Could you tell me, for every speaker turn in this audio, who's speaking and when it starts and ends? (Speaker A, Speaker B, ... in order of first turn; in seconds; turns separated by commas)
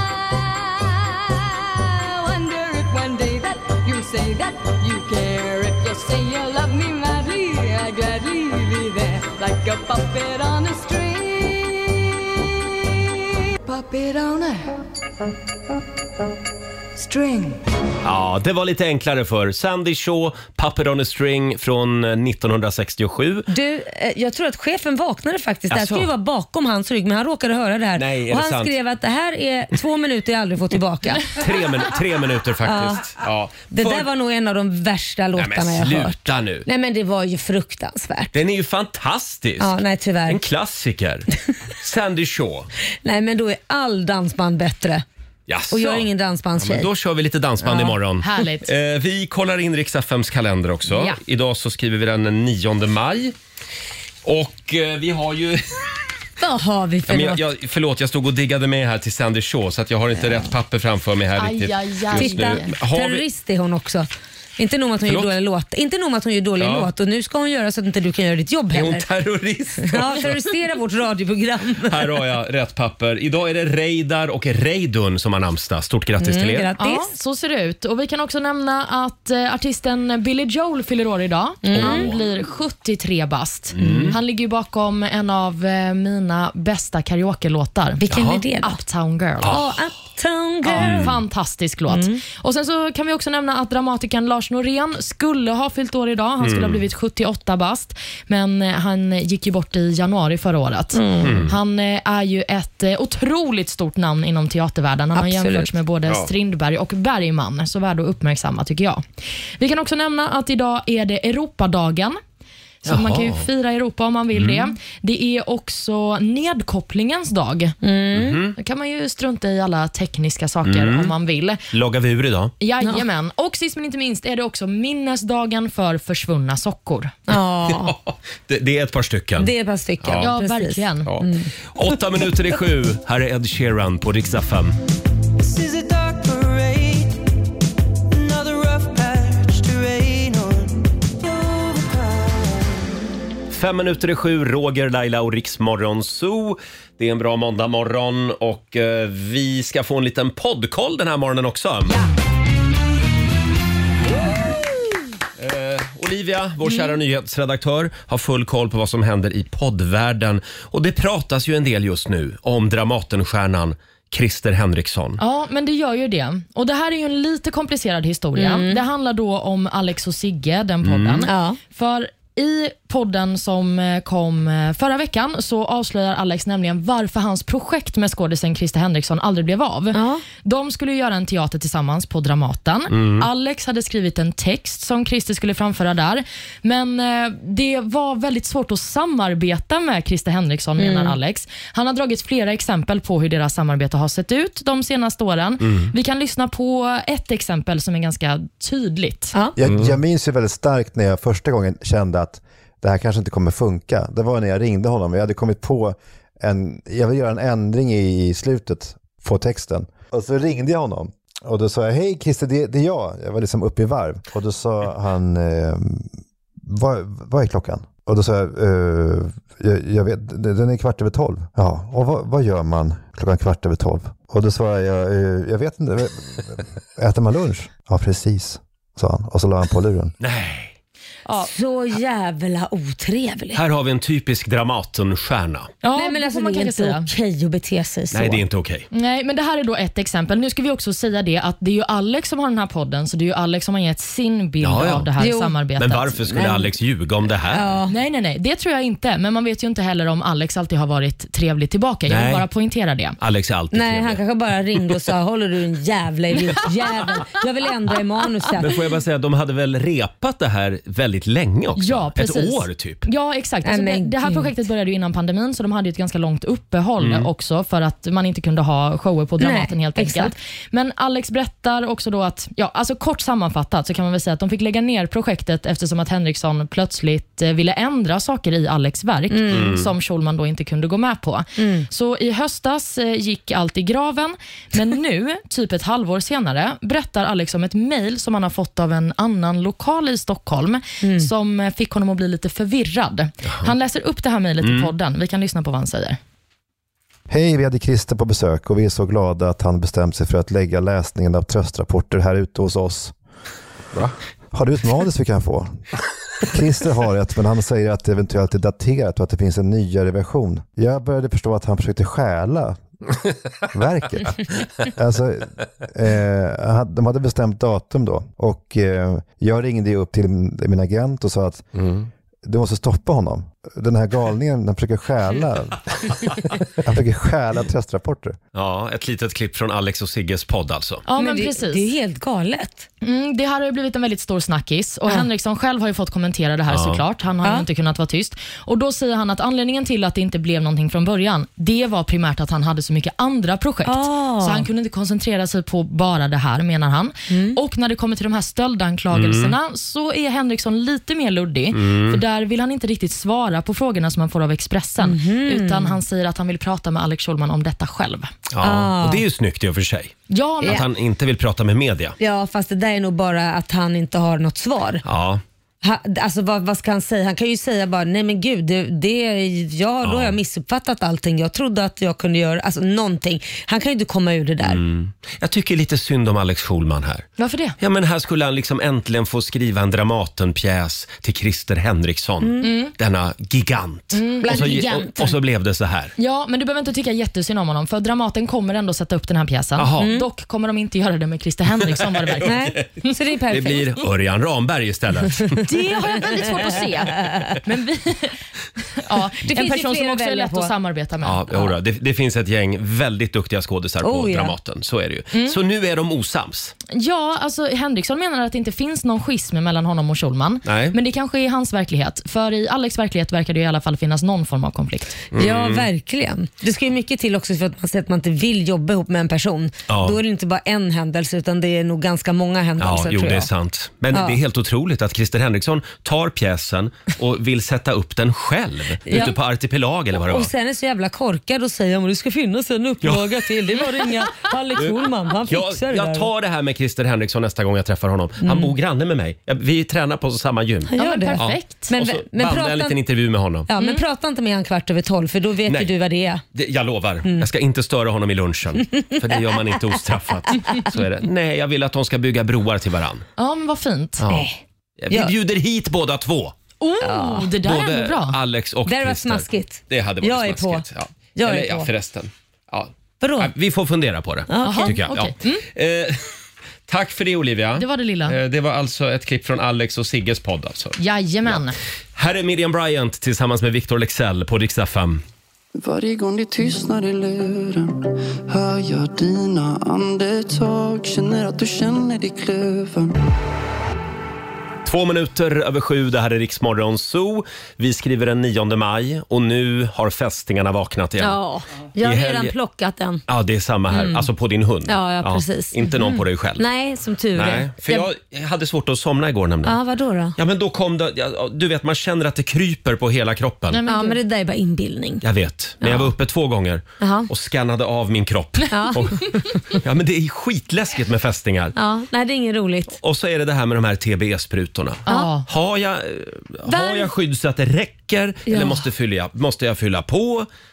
Speaker A: 2.3-11.2, Speaker B: 18.0-23.5, Speaker C: 23.5-31.4, Speaker B: 25.7-26.1, Speaker B: 28.0-28.7, Speaker B: 31.3-34.1, Speaker C: 32.6-33.1, Speaker C: 33.7-38.3, Speaker B: 35.4-36.7, Speaker B: 38.3-39.7, Speaker C: 39.6-40.4, Speaker B: 40.3-41.2, Speaker B: 41.8-42.7, Speaker C: 43.0-45.0, Speaker B: 45.5-53.3, Speaker C: 45.7-46.9, Speaker D: 48.2-48.7, Speaker D: 50.9-51.2, Speaker B: 54.2-55.8, Speaker C: 56.4-57.4, Speaker B: 57.1-63.2, Speaker D: 61.4-62.7, Speaker C: 62.1-69.0, Speaker B: 65.0-65.3, Speaker B: 66.6-66.9, Speaker B: 68.7-70.4, Speaker C: 69.8-72.0, Speaker B: 71.9-76.7, Speaker C: 76.2-77.1, Speaker D: 76.8-88.0, Speaker C: 81.6-82.1, Speaker B: 81.7-82.2, Speaker B: 83.7-84.2, Speaker C: 83.8-84.2, Speaker C: 88.0-88.8, Speaker B: 88.1-88.4, Speaker D: 88.6-89.5, Speaker C: 89.5-91.2, Speaker D: 90.6-109.0, Speaker B: 90.8-91.1, Speaker C: 91.9-92.2, Speaker B: 96.4-96.8, Speaker C: 100.9-101.4, Speaker B: 101.2-101.5, Speaker C: 105.1-105.7, Speaker D: 109.6-112.2, Speaker D: 112.8-117.8, Speaker B: 112.8-113.4, Speaker B: 114.3-114.6, Speaker C: 117.8-118.4, Speaker B: 118.1-118.5, Speaker D: 118.6-121.6, Speaker B: 120.6-121.1, Speaker B: 121.7-122.5, Speaker D: 122.6-127.1, Speaker C: 127.3-127.9, Speaker B: 127.7-129.5, Speaker C: 129.4-132.3, Speaker B: 130.0-130.3, Speaker D: 130.2-131.1, Speaker B: 131.1-134.8, Speaker B: 143.5-152.0, Speaker B: 155.4-165.2, Speaker D: 165.2-199.3, Speaker C: 168.3-168.8, Speaker B: 170.8-171.3, Speaker C: 171.2-171.6, Speaker C: 179.9-180.2, Speaker B: 182.9-183.2, Speaker C: 190.8-191.2, Speaker B: 195.6-195.9, Speaker E: 199.6-216.1, Speaker B: 199.6-199.9, Speaker E: 216.6-230.1, Speaker B: 230.2-230.7, Speaker C: 231.4-233.6, Speaker B: 233.5-235.7, Speaker D: 235.8-237.1, Speaker C: 235.9-238.4, Speaker B: 238.1-238.9, Speaker D: 238.9-246.2, Speaker B: 244.6-245.1, Speaker C: 245.2-245.6, Speaker B: 245.8-247.7, Speaker C: 246.3-246.7, Speaker C: 247.5-247.9, Speaker D: 247.9-253.2, Speaker B: 252.1-252.4, Speaker B: 253.2-254.2, Speaker C: 253.7-258.7, Speaker B: 258.6-263.0, Speaker D: 261.8-296.2, Speaker C: 263.6-264.5, Speaker B: 267.0-267.3, Speaker C: 269.4-270.3, Speaker C: 279.3-279.8, Speaker B: 279.5-279.8, Speaker C: 281.6-281.9, Speaker C: 291.0-291.3, Speaker B: 294.6-294.9, Speaker E: 297.3-303.1, Speaker E: 304.5-305.8, Speaker E: 306.4-312.8, Speaker E: 313.7-321.6, Speaker B: 321.8-322.1, Speaker E: 322.4-326.2, Speaker E: 326.8-328.4, Speaker B: 328.5-331.0, Speaker D: 331.1-331.9, Speaker C: 331.2-332.9, Speaker D: 333.0-358.3, Speaker B: 336.7-337.0, Speaker C: 343.8-344.7, Speaker C: 347.3-347.6, Speaker B: 349.1-349.6, Speaker B: 351.7-352.2, Speaker C: 355.0-356.0, Speaker B: 358.5-362.1, Speaker C: 358.6-359.2, Speaker D: 360.3-360.8, Speaker C: 362.2-365.0, Speaker B: 365.0-365.4, Speaker C: 365.8-374.8, Speaker B: 370.0-370.4, Speaker B: 374.6-377.2, Speaker D: 377.4-377.8, Speaker B: 377.8-386.1, Speaker C: 382.4-382.7, Speaker D: 382.6-382.9, Speaker D: 384.1-384.6, Speaker C: 384.4-385.4, Speaker D: 386.2-393.1, Speaker B: 389.8-390.1, Speaker C: 390.0-390.2, Speaker C: 392.4-393.8, Speaker B: 393.5-395.6, Speaker D: 395.6-398.3, Speaker C: 396.5-397.6, Speaker D: 399.0-401.5, Speaker C: 399.4-400.7, Speaker B: 401.2-406.7, Speaker C: 404.0-404.5, Speaker D: 406.9-415.2, Speaker B: 410.6-410.9, Speaker B: 415.3-415.9, Speaker C: 415.3-423.5, Speaker B: 419.9-420.2, Speaker B: 422.8-430.5, Speaker C: 429.1-429.3, Speaker C: 430.2-436.2, Speaker B: 433.0-433.8, Speaker B: 434.8-443.9, Speaker C: 438.4-438.7, Speaker C: 440.9-443.0, Speaker D: 441.0-441.9, Speaker C: 443.7-446.4, Speaker B: 445.6-445.9, Speaker B: 446.5-453.2, Speaker D: 453.4-454.2, Speaker B: 454.2-454.5, Speaker C: 454.3-454.6, Speaker B: 455.0-456.5, Speaker D: 456.8-458.4, Speaker C: 457.0-457.5, Speaker B: 457.6-466.2, Speaker C: 458.9-460.8, Speaker C: 461.4-461.9, Speaker C: 463.2-463.5, Speaker C: 464.5-464.9, Speaker D: 464.6-465.6, Speaker B: 466.9-471.6, Speaker D: 467.8-468.4, Speaker D: 471.0-471.8, Speaker B: 472.1-475.2, Speaker F: 475.7-483.2, Speaker B: 484.8-491.4, Speaker C: 491.2-493.2, Speaker B: 492.0-492.5, Speaker B: 493.3-496.6, Speaker C: 493.9-494.2, Speaker C: 494.9-496.0, Speaker C: 496.6-498.1, Speaker B: 497.3-499.8, Speaker C: 499.6-500.4, Speaker B: 500.4-503.8, Speaker D: 503.7-504.2, Speaker C: 503.8-505.2, Speaker B: 505.2-511.7, Speaker C: 505.8-506.1, Speaker C: 507.0-507.3, Speaker C: 508.7-509.6, Speaker C: 511.8-513.0, Speaker B: 513.0-520.5, Speaker D: 515.0-515.5, Speaker C: 516.6-517.1, Speaker C: 518.5-518.8